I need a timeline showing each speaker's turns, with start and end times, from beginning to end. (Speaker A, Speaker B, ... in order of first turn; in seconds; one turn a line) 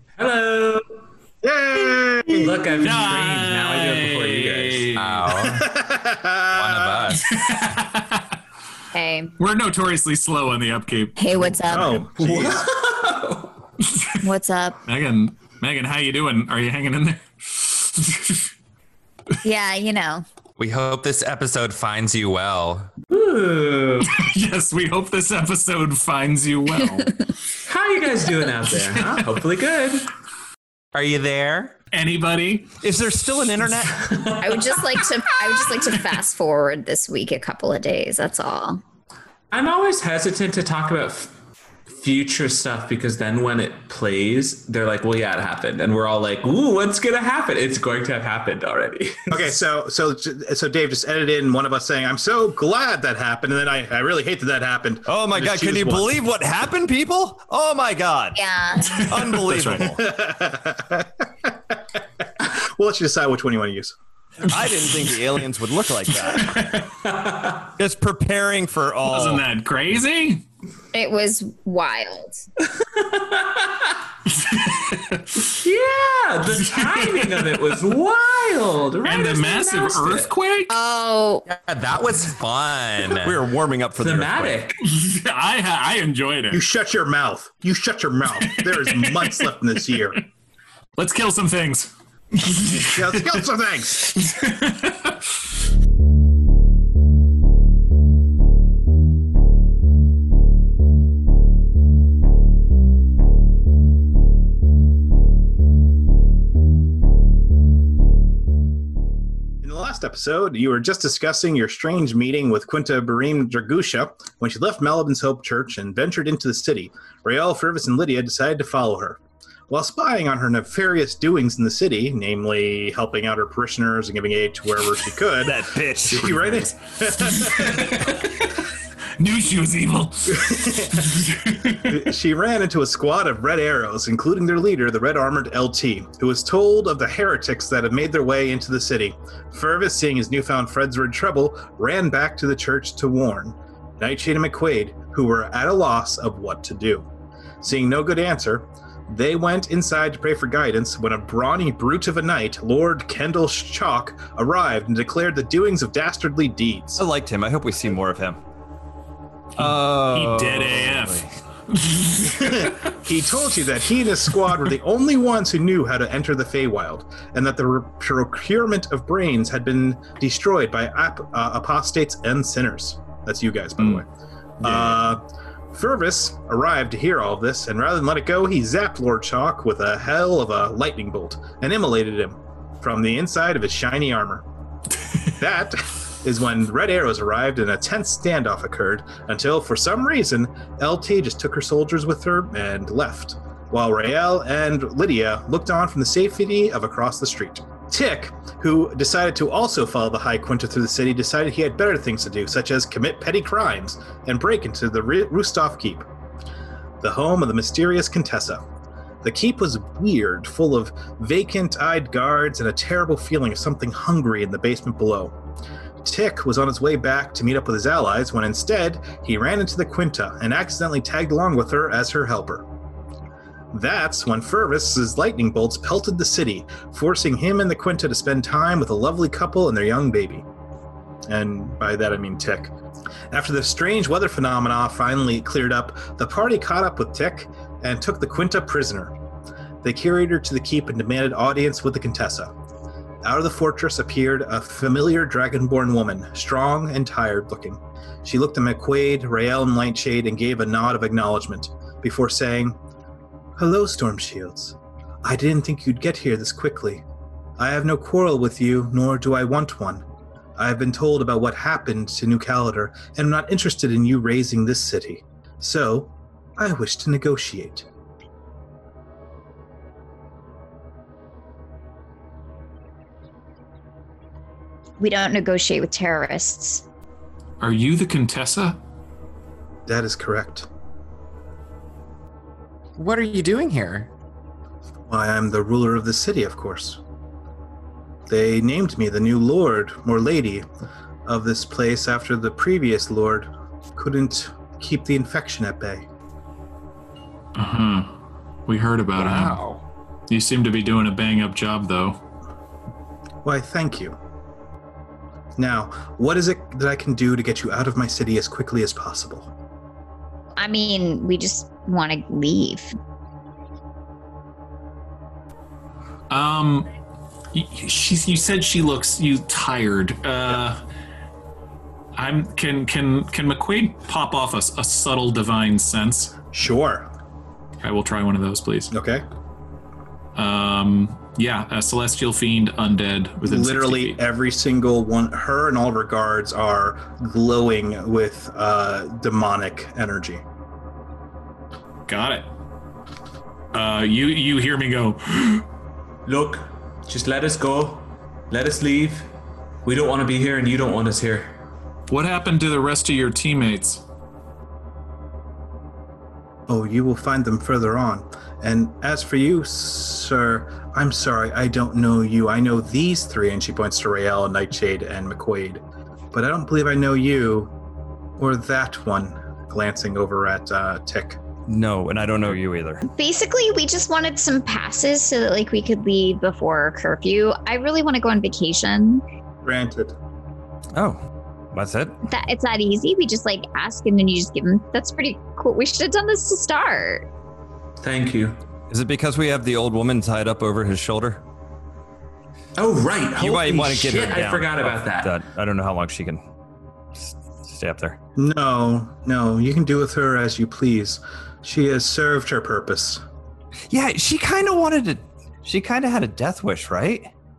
Speaker A: 0.2-0.8
Speaker B: 1.4-2.6
Speaker A: 2.3-5.0
Speaker C: 2.8-5.2
Speaker D: 4.9-5.7
Speaker B: 5.4-7.1
Speaker D: 6.5-7.3
Speaker C: 7.2-8.4
Speaker E: 8.9-9.3
Speaker C: 9.4-11.8
Speaker E: 11.2-12.0
Speaker B: 11.7-12.7
Speaker A: 12.2-13.5
Speaker C: 13.8-14.2
Speaker E: 14.2-14.8
Speaker C: 14.8-18.4
Speaker E: 19.4-20.2
Speaker D: 20.6-22.9
Speaker A: 23.1-24.2
Speaker C: 24.0-27.1
Speaker A: 27.6-30.1
Speaker D: 30.9-31.8
Speaker C: 31.9-32.7
Speaker F: 32.8-34.1
Speaker A: 34.0-35.0
Speaker E: 34.4-38.8
Speaker A: 39.5-41.3
Speaker A: 41.9-49.3
Speaker B: 49.3-56.1
Speaker F: 55.1-60.0
Speaker E: 58.3-59.0
Speaker C: 58.9-59.9
Speaker B: 59.7-61.8
Speaker B: 62.4-63.9
Speaker F: 64.5-66.5
Speaker C: 66.2-66.9
Speaker A: 67.0-67.7
Speaker F: 67.8-69.4
Speaker C: 69.0-70.4
Speaker E: 70.9-72.4
Speaker A: 72.8-74.0
Speaker C: 74.3-75.6
Speaker A: 75.5-80.3
Speaker C: 76.5-77.7
Speaker C: 79.0-80.7
Speaker E: 80.7-81.4
Speaker D: 81.5-83.3
Speaker F: 83.1-84.6
Speaker A: 84.0-84.8
Speaker C: 84.8-86.6
Speaker B: 86.5-90.2
Speaker C: 88.4-90.0
Speaker C: 91.0-93.4
Speaker B: 92.7-94.0
Speaker C: 94.0-95.3
Speaker B: 109.6-128.0
Speaker F: 125.4-126.5
Speaker C: 127.2-128.6
Speaker C: 129.2-132.1
Speaker B: 130.3-147.1
Speaker B: 147.6-157.0
Speaker F: 157.0-158.4
Speaker F: 159.6-161.3
Speaker C: 159.6-162.9
Speaker B: 162.3-174.1
Speaker B: 174.6-184.4
Speaker B: 185.3-206.1
Speaker B: 207.0-208.6
Speaker B: 209.2-215.3
Speaker B: 216.0-222.6
Speaker B: 223.7-230.4
Speaker B: 231.3-232.7
Speaker B: 233.3-239.1
Speaker B: 239.8-242.5
Speaker B: 243.2-252.8
Speaker B: 253.6-257.0
Speaker B: 257.6-260.0
Speaker B: 260.6-267.8
Speaker E: 275.0-276.8
Speaker C: 277.6-278.8
Speaker B: 279.9-280.7
Speaker D: 283.0-284.1
Speaker B: 285.1-287.0
Speaker B: 288.3-290.6
Speaker B: 291.2-296.1
Speaker C: 297.5-298.1
Speaker C: 298.7-299.6
Speaker D: 299.2-299.8
Speaker C: 300.3-302.2
Speaker B: 303.4-304.2
Speaker B: 305.6-309.5
Speaker E: 310.6-312.9
Speaker C: 316.3-316.9
Speaker C: 317.5-320.8
Speaker C: 322.1-326.4
Speaker B: 326.5-327.1
Speaker C: 327.8-328.9
Speaker B: 328.9-329.2
Speaker C: 330.3-334.2
Speaker B: 333.4-340.4
Speaker C: 342.1-342.5
Speaker C: 343.7-345.6
Speaker A: 346.2-349.3
Speaker A: 349.8-351.5
Speaker C: 352.1-354.0
Speaker B: 356.7-365.8
Speaker B: 366.3-367.7
Speaker B: 368.4-371.4
Speaker F: 371.7-373.0
Speaker E: 373.0-379.2
Speaker B: 379.6-380.1
Speaker F: 380.9-381.2
Speaker F: 381.7-382.2
Speaker E: 382.2-387.3
Speaker A: 388.0-388.6
Speaker F: 388.9-391.4
Speaker A: 392.8-395.3
Speaker F: 393.4-396.4
Speaker F: 397.3-398.2
Speaker B: 398.4-403.2
Speaker F: 403.9-407.3